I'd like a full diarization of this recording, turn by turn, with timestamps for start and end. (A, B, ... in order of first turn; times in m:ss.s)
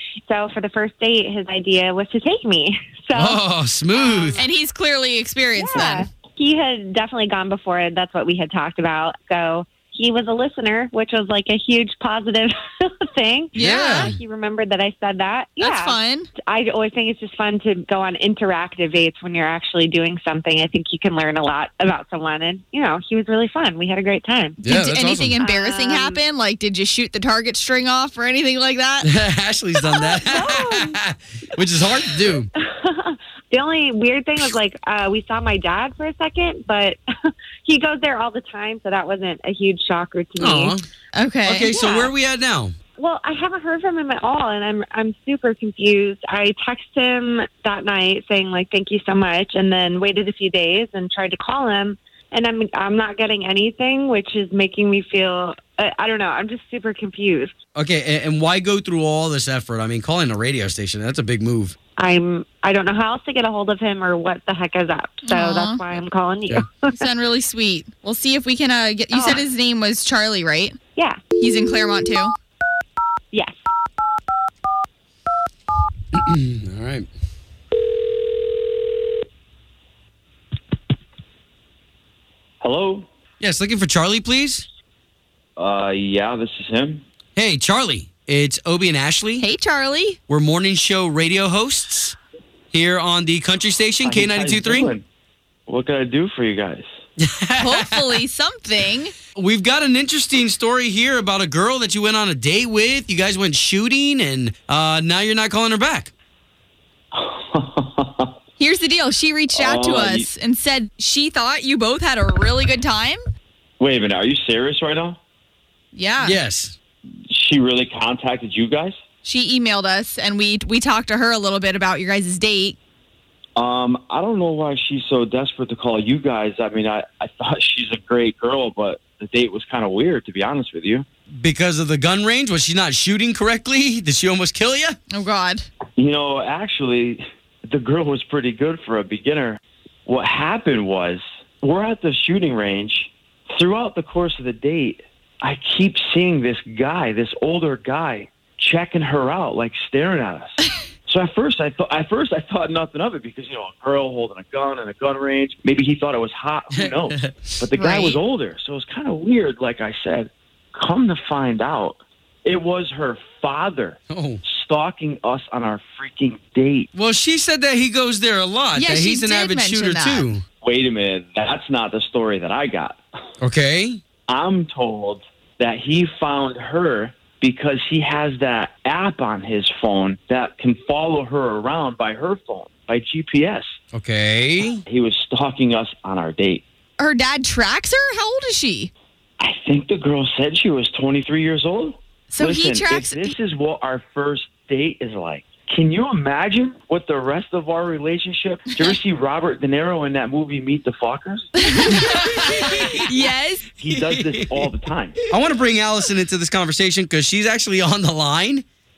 0:00.3-0:04.4 A
0:03.2-0:04.4 B
0:04.4-0:06.1 C
0:05.6-0:24.6 A
0:13.6-0:14.1 C
0:13.7-0:14.1 B
0:15.6-0:16.3 C
0:24.6-0:29.1 C
0:24.7-0:25.4 B
0:25.4-0:26.2 A
0:29.3-0:32.5 B
0:30.0-0:31.0 A
0:32.1-0:37.0 A
0:37.6-0:40.8 A
0:40.4-0:40.8 B
0:41.2-0:41.7 C
0:41.5-0:42.7 B
0:41.7-0:42.1 A
0:43.0-0:57.5 A
0:57.8-1:01.8 B
1:02.0-1:07.0 A
1:05.2-1:06.0 C
1:07.0-1:10.8 C
1:09.1-1:09.4 A
1:11.4-1:12.3 C
1:16.1-1:17.1 B
1:22.6-1:23.1 D
1:23.4-1:24.7 B
1:25.6-1:27.0 D
1:27.4-1:29.5 B
1:29.4-1:30.2 C
1:30.3-1:32.2 B
1:32.7-1:34.9 B
1:34.0-1:35.1 D
1:35.7-1:36.9 D
1:37.2-1:38.1 B
1:37.6-1:39.2 C
1:39.4-1:46.1 B
1:47.1-1:48.3 D
1:48.6-1:53.2 C
1:49.5-1:50.3 D
1:53.8-1:55.2 D
1:55.9-1:56.4 C
1:56.3-1:56.8 B
1:57.3-1:59.0 D
1:59.2-2:02.8 C
2:03.6-2:11.1 D
2:11.4-2:15.0 B
2:15.1-2:15.6 C
2:16.0-2:46.9 D
2:37.1-2:37.5 B
2:37.8-2:38.2 C
2:44.1-2:44.4 B
2:47.0-2:50.4 B
2:48.8-2:50.3 C
2:50.6-2:53.0 D
2:53.4-2:54.0 B
2:54.3-3:03.8 D
3:03.9-3:04.8 B
3:04.9-3:06.6 D
3:07.0-3:08.9 C
3:09.4-3:21.5 D
3:12.3-3:13.3 C
3:21.6-3:23.9 C
3:22.8-3:23.1 B
3:23.8-3:25.2 D
3:24.1-3:24.7 B
3:25.3-3:28.6 B